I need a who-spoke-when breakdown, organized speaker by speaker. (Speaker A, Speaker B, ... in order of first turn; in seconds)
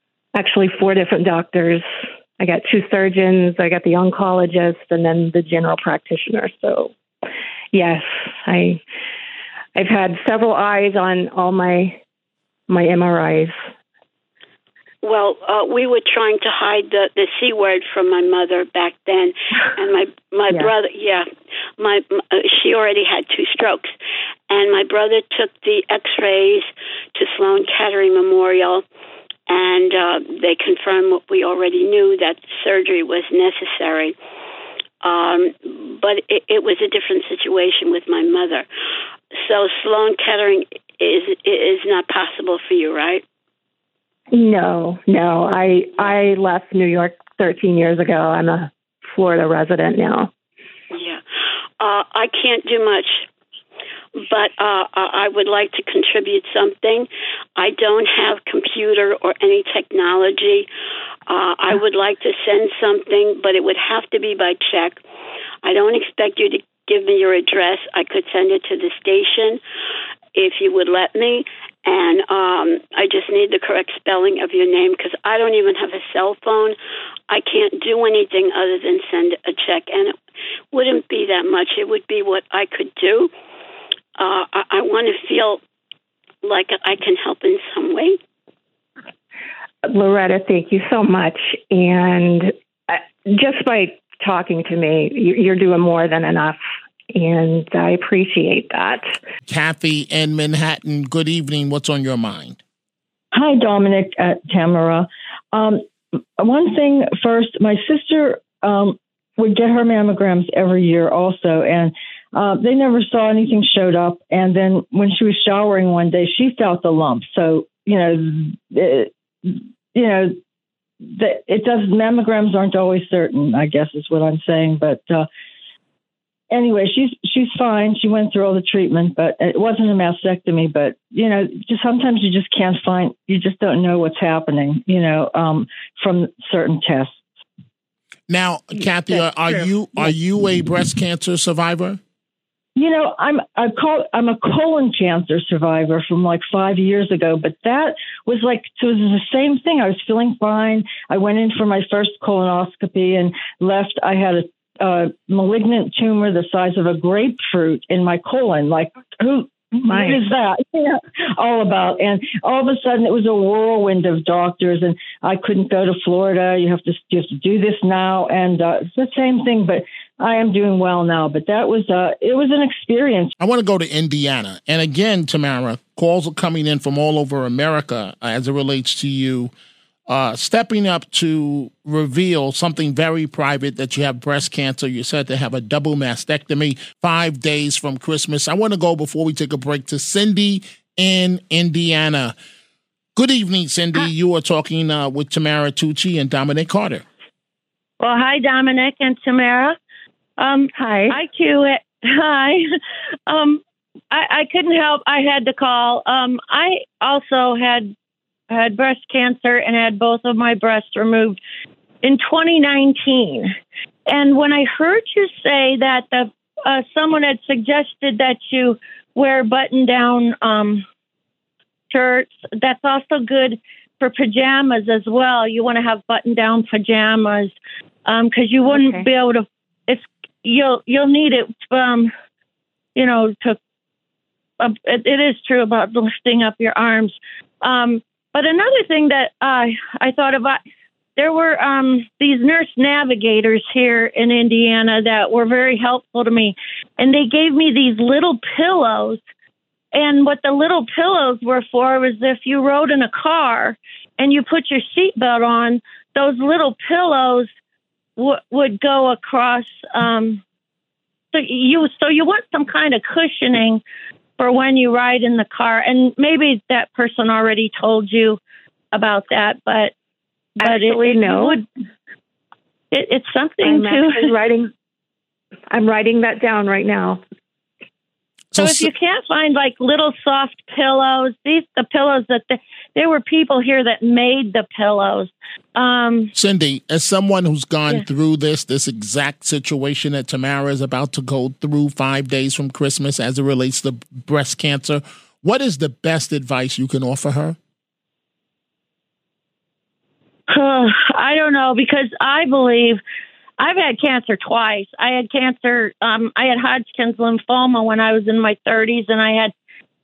Speaker A: 0.3-1.8, 2.4-6.9, 7.7-8.8, 9.7-12.0, 12.7-13.6, 44.3-50.3, 89.8-96.6, 97.1-99.1, 159.8-160.2, 200.7-201.2, 228.7-229.1, 270.6-271.6, 273.6-274.7, 275.7-277.2
Speaker B: 15.0-21.2, 21.8-23.9, 24.5-28.8, 29.5-34.1, 35.0-38.6, 39.3-43.2, 50.9-51.2, 51.8-53.2, 54.2-60.7, 61.3-65.0, 65.6-69.6, 70.3-76.8, 77.3-80.2, 80.7-83.3, 84.2-85.6, 86.4-88.2
Speaker C: 99.5-102.6, 138.3-142.0, 173.4-179.5, 180.1-192.3, 193.2-197.0, 278.5-278.9, 286.3-297.6
Speaker D: 103.3-120.4, 121.0-125.3, 126.5-137.3, 142.8-173.3
Speaker E: 198.0-199.8, 200.4-202.7, 203.3-207.9, 208.5-211.4, 212.0-213.5, 214.1-220.8, 221.9-227.5, 228.1-232.1, 232.9-233.6, 234.6-240.6, 241.2-249.2, 249.9-257.5, 258.2-260.4, 261.3-263.8, 264.4-268.4, 268.9-269.9, 270.6-271.6, 272.9-274.3, 278.6-286.3, 300.5-303.0, 303.6-309.5